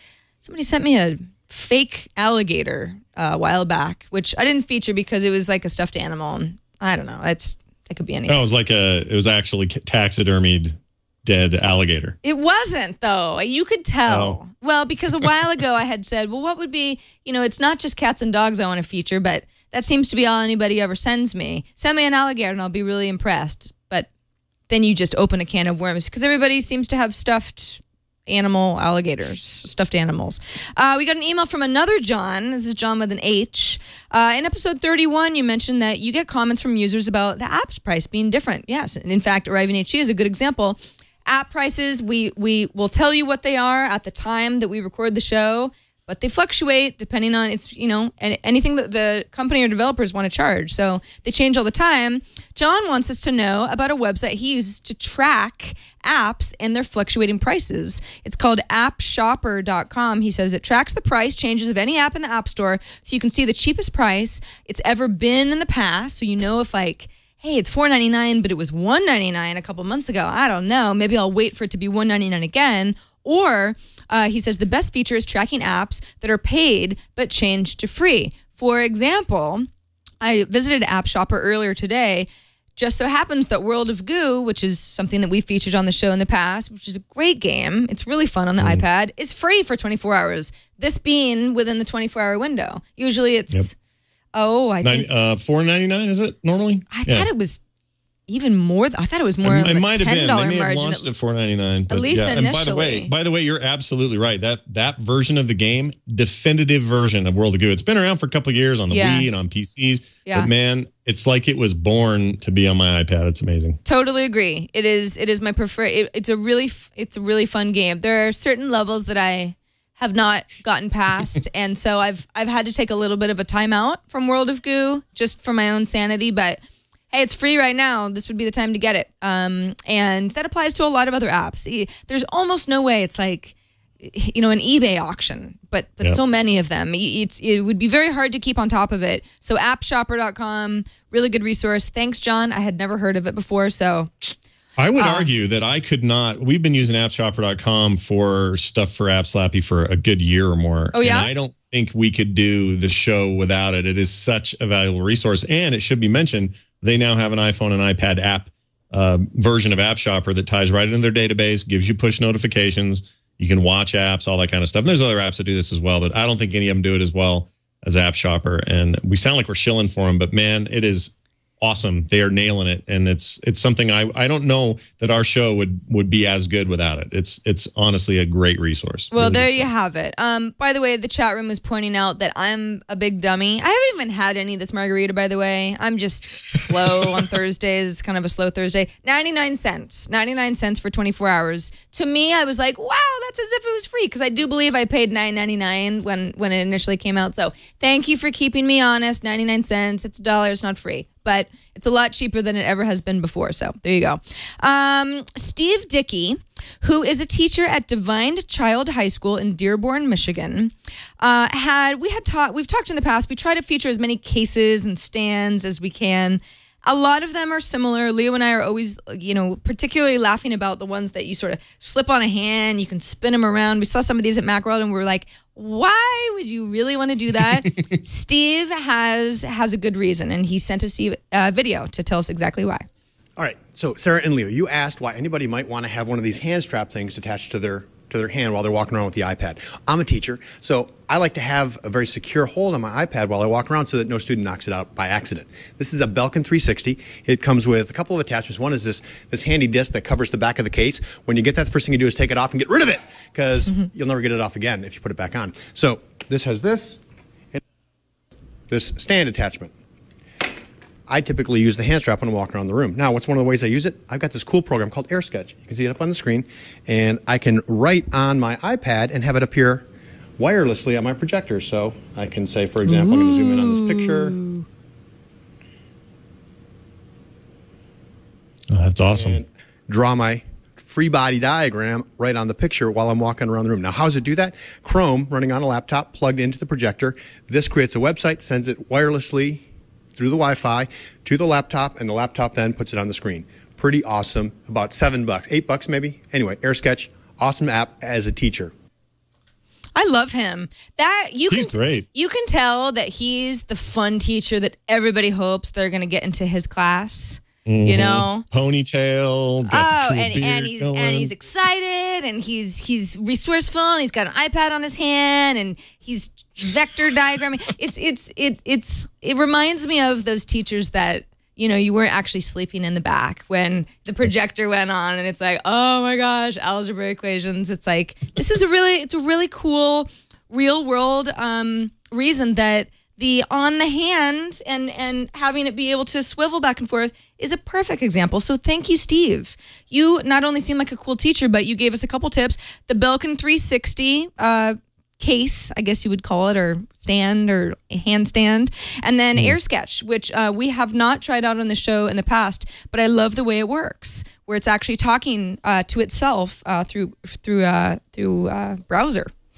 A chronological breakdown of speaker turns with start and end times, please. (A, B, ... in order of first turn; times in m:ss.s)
0:00.4-0:08.4 A
0:08.3-0:12.2 B
0:12.2-0:24.1 A
0:14.1-0:14.4 B
0:24.7-1:19.7 A
1:20.2-1:33.7 A
1:34.3-1:35.1 A
1:34.8-1:37.3 B
1:36.9-1:37.6 A
1:38.3-1:41.1 A
1:39.4-1:53.8 B
1:41.9-1:43.1 A
1:48.9-1:49.3 A
1:53.8-2:24.3 A
2:24.8-2:59.7 B
2:25.0-2:25.3 A
2:30.9-2:31.3 A
2:59.1-3:52.8 A
3:53.4-4:17.0 C
4:18.7-4:19.7 C
4:21.1-4:29.8 C
4:30.4-4:34.4 C
4:33.0-4:33.9 A
4:38.7-4:39.4 B
4:39.2-4:49.6 C
4:50.1-4:58.7 C
5:00.0-5:08.4 A
5:01.5-5:02.0 B
5:07.6-5:11.3 B
5:09.7-5:59.3 A